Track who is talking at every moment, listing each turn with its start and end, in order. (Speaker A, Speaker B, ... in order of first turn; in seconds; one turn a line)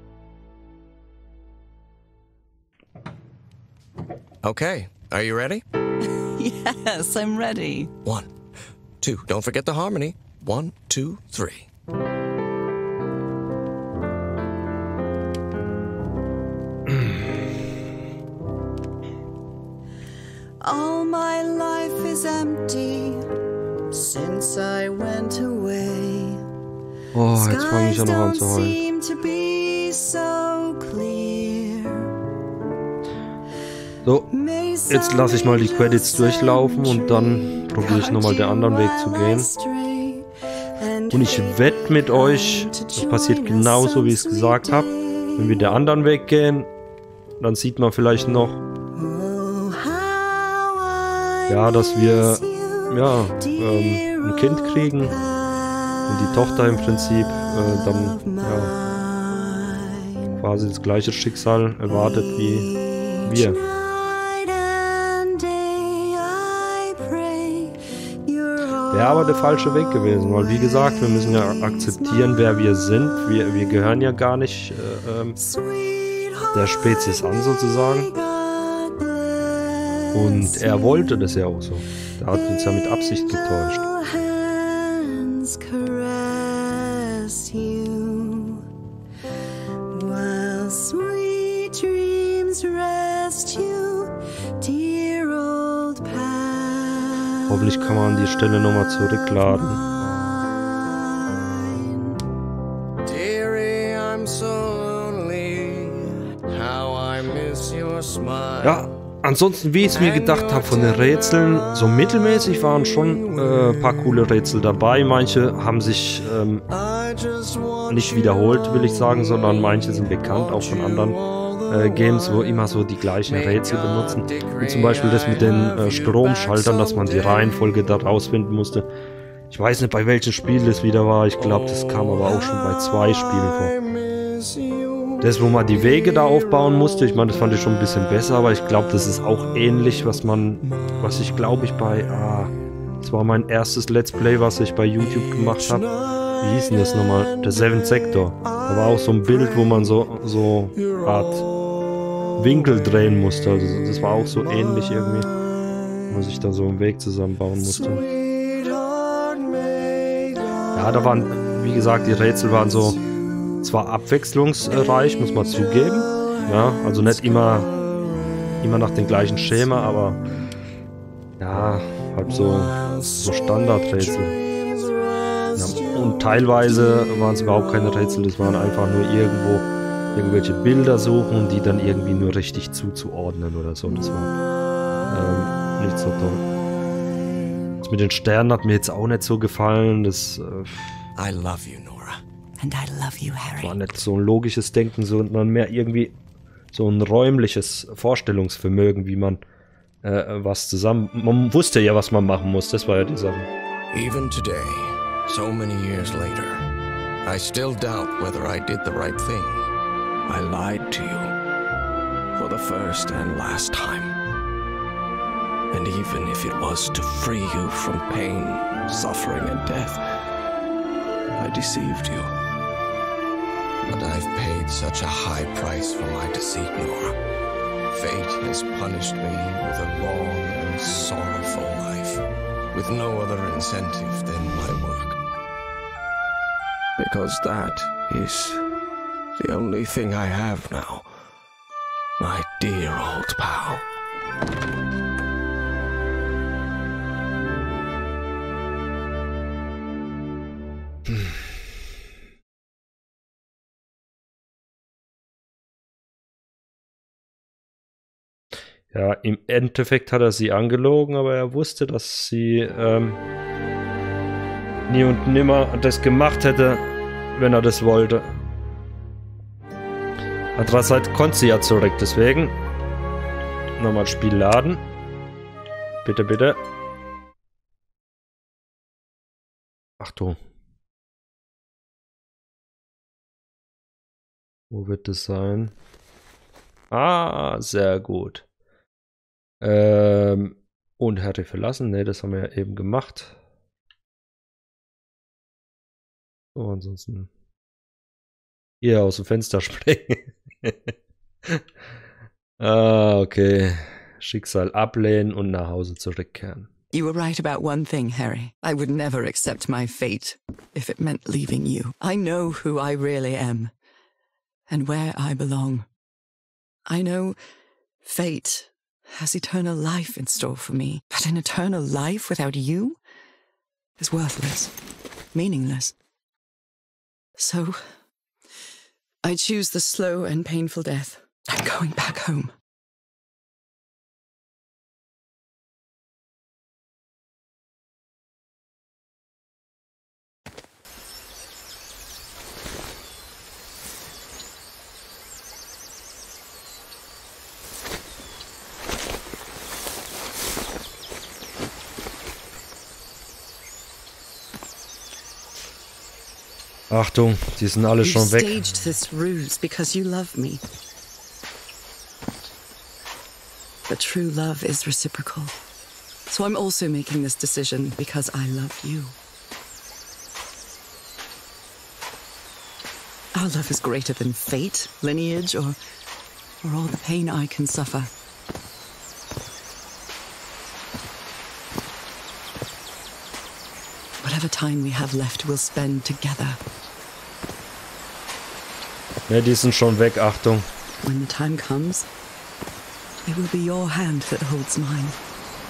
Speaker A: 4.4-5.6
Speaker B: 6.3-7.9
Speaker A: 9.0-11.7
Speaker B: 20.6-23.3
Speaker B: 23.9-26.4
Speaker C: 27.1-28.8
Speaker B: 27.3-32.1
Speaker C: 34.0-34.3
Speaker B: 34.3-45.3
Speaker C: 34.9-39.5
Speaker C: 41.1-46.7
Speaker C: 47.4-48.6
Speaker B: 49.0-52.9
Speaker C: 51.5-55.2
Speaker B: 53.7-54.1
Speaker C: 56.1-58.7
Speaker B: 58.7-60.2
Speaker C: 60.3-63.6
Speaker B: 63.0-68.8
Speaker C: 68.9-75.4
Speaker B: 71.2-72.4
Speaker B: 75.4-80.6
Speaker C: 76.5-78.2
Speaker C: 80.1-83.8
Speaker B: 82.8-88.6
Speaker B: 89.9-97.3
Speaker C: 97.5-99.8
Speaker B: 100.7-102.1
Speaker A: 103.0-108.8
Speaker C: 108.6-116.6
Speaker A: 116.9-117.9
Speaker C: 117.9-128.9
Speaker A: 124.2-125.1
Speaker C: 129.5-133.8
Speaker A: 134.2-135.0
Speaker C: 135.2-151.5
Speaker C: 152.3-155.3
Speaker C: 156.1-158.1
Speaker C: 160.7-163.0
Speaker C: 163.6-167.7
Speaker C: 168.6-170.2
Speaker C: 171.4-174.4
Speaker C: 175.6-184.3
Speaker C: 185.1-186.4
Speaker C: 187.8-190.9
Speaker A: 191.2-192.2
Speaker B: 192.6-193.8
Speaker C: 193.6-196.2
Speaker C: 196.7-199.4
Speaker C: 200.0-203.5
Speaker A: 203.9-206.6
Speaker A: 207.2-209.6
Speaker A: 210.3-211.3
Speaker A: 212.3-214.1
Speaker A: 215.7-220.0
Speaker A: 221.4-222.3
Speaker A: 223.9-227.1
Speaker A: 227.9-232.2
Speaker A: 232.7-235.1
Speaker A: 237.0-238.6
Speaker A: 239.4-241.1
Speaker A: 242.2-243.8
Speaker C: 258.9-263.2
Speaker C: 264.9-268.4
Speaker C: 270.6-272.6
Speaker C: 273.8-274.8
Speaker C: 276.0-276.6
Speaker C: 280.0-280.4
Speaker C: 284.7-285.7
Speaker C: 286.9-288.4
Speaker C: 289.6-293.3
Speaker C: 296.5-297.3
Speaker C: 298.8-300.9
Speaker C: 302.6-306.7
Speaker B: 306.9-313.7
Speaker B: 314.7-315.9
Speaker B: 316.9-317.4
Speaker B: 318.0-323.0
Speaker B: 324.0-324.7
Speaker B: 325.3-325.9
Speaker B: 327.4-327.8
Speaker B: 329.2-332.5
Speaker C: 356.9-358.7
Speaker B: 358.0-360.6
Speaker B: 363.9-365.5
Speaker B: 366.3-369.1
Speaker B: 373.3-375.8
Speaker B: 376.6-378.1
Speaker B: 384.2-386.6
Speaker C: 389.3-390.6
Speaker B: 391.0-392.1
Speaker B: 393.2-395.1